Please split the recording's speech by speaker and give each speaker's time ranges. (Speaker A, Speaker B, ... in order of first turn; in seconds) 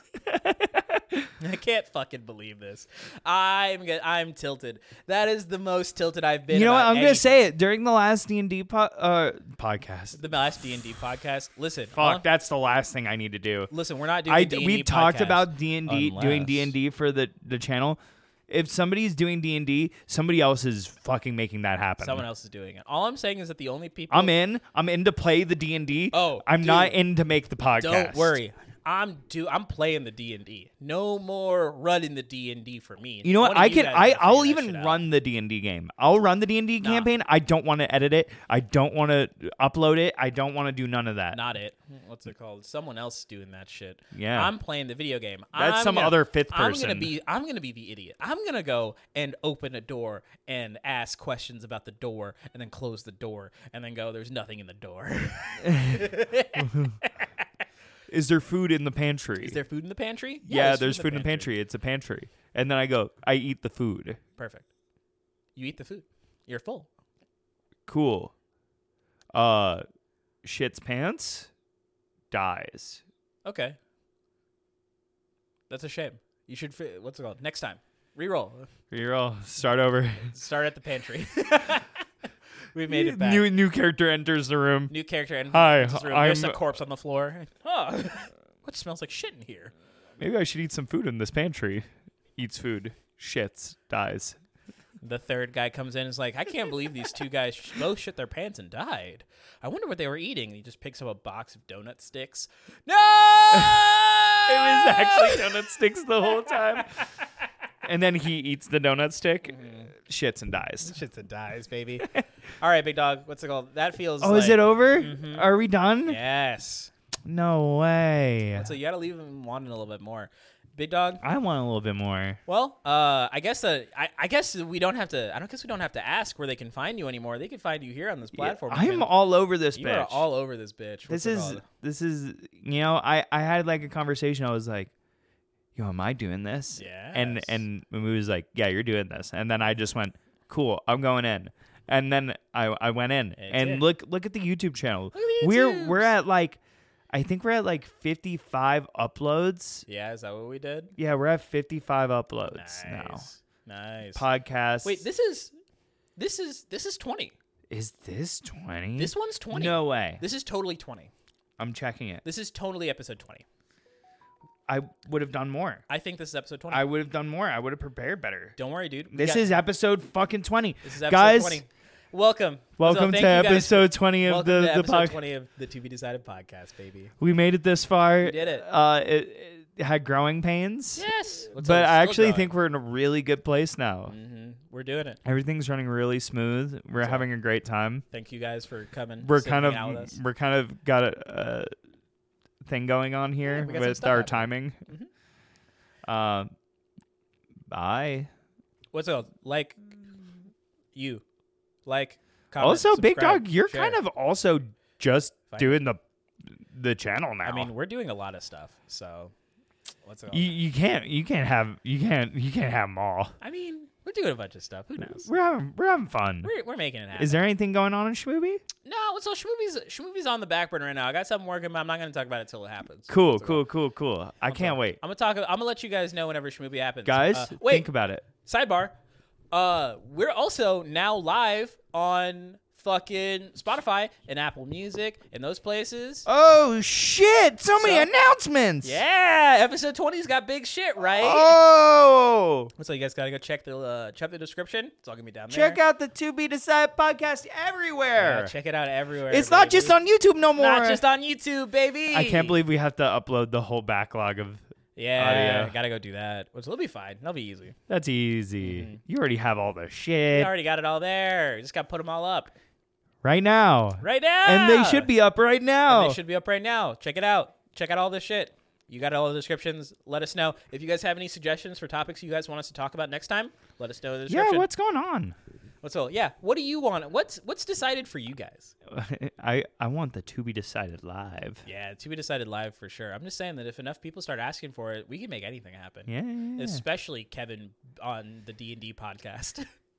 Speaker A: 0.2-1.3, 6.5-10.2, 11.9-13.7, 14.2-22.2, 24.1-28.4, 33.2-41.4, 44.1-44.5, 45.5-47.1, 55.7-56.0, 56.6-57.0, 58.1-59.6, 60.4-64.2, 67.9-68.3, 69.3-69.8, 70.4-71.5, 72.3-73.0, 78.9-80.3, 82.9-84.9, 85.5-86.6, 90.2-91.8, 92.4-94.4, 103.5-103.8, 104.5-106.9, 107.8-110.9, 114.2-116.2, 117.2-118.7, 121.2-122.4, 128.3-130.2, 131.1-134.9, 135.8-146.6, 147.1-149.8, 151.0-153.2, 154.1-155.0, 157.7-160.2, 161.6-162.2, 164.7-165.8, 166.7-168.6, 169.1-171.6, 172.8-175.2, 177.2-184.1, 185.2-188.0, 189.2-191.7, 192.6-194.8, 196.1-196.5, 197.7-198.3, 202.6-206.0, 206.6-207.7, 210.3-213.3, 215.2-216.5, 217.2-218.6, 223.1-225.0, 227.0-228.3, 236.3-239.0, 241.2-242.7, 245.5-248.5, 249.3-251.0, 252.1-254.6, 255.2-255.7, 257.9-260.5, 263.2-266.2, 274.3-275.3, 278.9-281.6, 286.1-286.8
Speaker B: 1.4-7.4, 10.1-12.2, 13.7-16.7, 22.0-24.3, 26.1-27.0, 27.8-35.0, 36.8-37.1, 41.3-57.5, 59.4-61.5, 64.4-64.7, 65.5-66.9, 73.4-73.8, 75.7-78.7, 80.3-81.9, 82.7-83.5, 84.9-89.7, 95.0-105.5, 106.5-107.2, 109.5-109.9, 110.8-115.5, 116.0-116.9, 118.5-121.2, 122.5-129.1, 129.7-131.6, 136.7-137.6, 143.4-143.8, 145.1-146.1, 149.9-150.9, 152.5-154.2, 154.8-155.5, 156.2-157.3, 159.0-161.1, 162.2-163.4, 165.9-166.8, 168.6-169.5, 170.8-177.1, 178.2-178.7, 180.9-182.5, 184.1-185.2, 187.0-187.3, 188.1-190.2, 193.4-195.1, 198.9-199.8, 200.9-201.2, 201.8-204.0, 205.5-205.8, 207.4-209.3, 210.0-210.6, 213.4-215.3, 216.4-217.5, 218.8-223.6, 224.4-227.9, 228.4-228.9, 229.5-236.3, 237.8-238.1, 238.8-241.6, 242.8-245.8, 248.2-250.0, 250.5-252.6, 254.9-257.8, 258.6-259.0, 260.3-262.5, 264.0-265.1, 265.9-274.7, 275.8-278.7, 281.6-289.6